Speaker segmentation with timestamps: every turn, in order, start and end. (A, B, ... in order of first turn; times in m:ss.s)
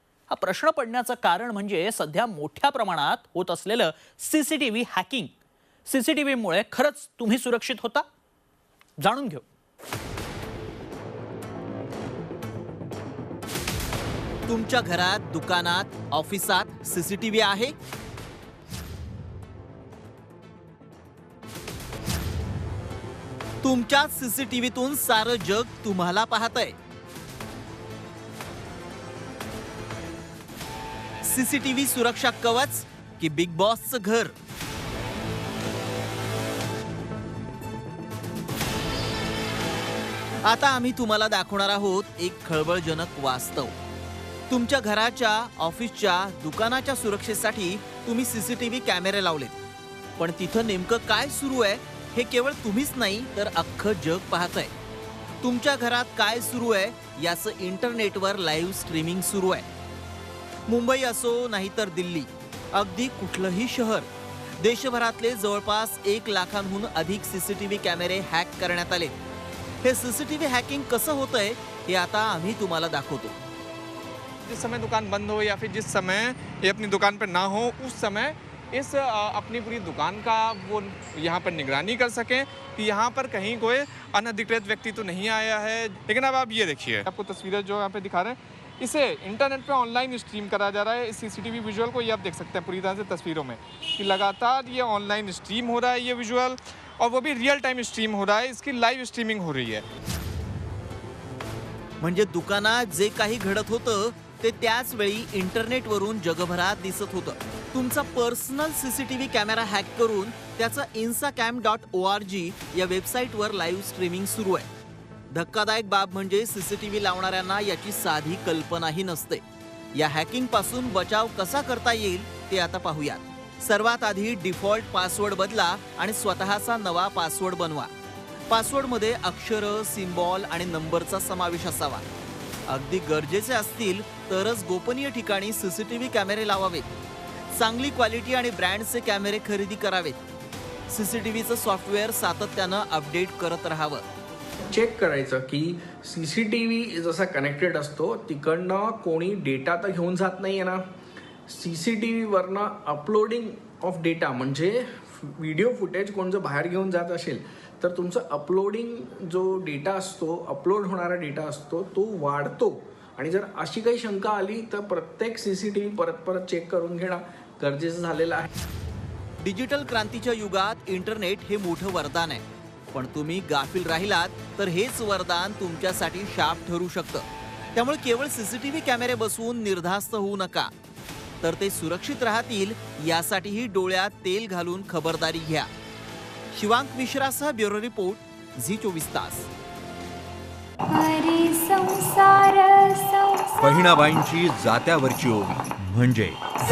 0:00.3-0:05.3 A
0:05.8-0:08.0 A
0:09.0-0:09.4 A
0:14.5-0:17.7 B
0:23.6-0:26.8 B
0:31.2-0:34.3 B
0:40.4-0:43.7 B
0:44.5-0:49.5 B
0:50.2-0:54.7 B
0:55.4-0:59.6 B
1:00.7-1:04.1 B
1:04.6-1:09.1 B
1:09.8-1:13.4 B
1:14.4-1:39.8 C
1:42.0-1:54.7 B
1:55.3-1:59.4 B
1:59.9-2:07.9 B
2:08.5-2:12.0 B
2:12.7-2:16.9 B
2:17.5-2:20.2 B
2:20.9-2:24.0 B
2:24.7-2:30.8 D
2:31.5-2:48.5 D
2:49.4-3:00.7 B
3:01.4-3:05.7 B
3:06.5-3:09.5 B
3:10.9-3:14.0 E
3:13.6-3:16.5 F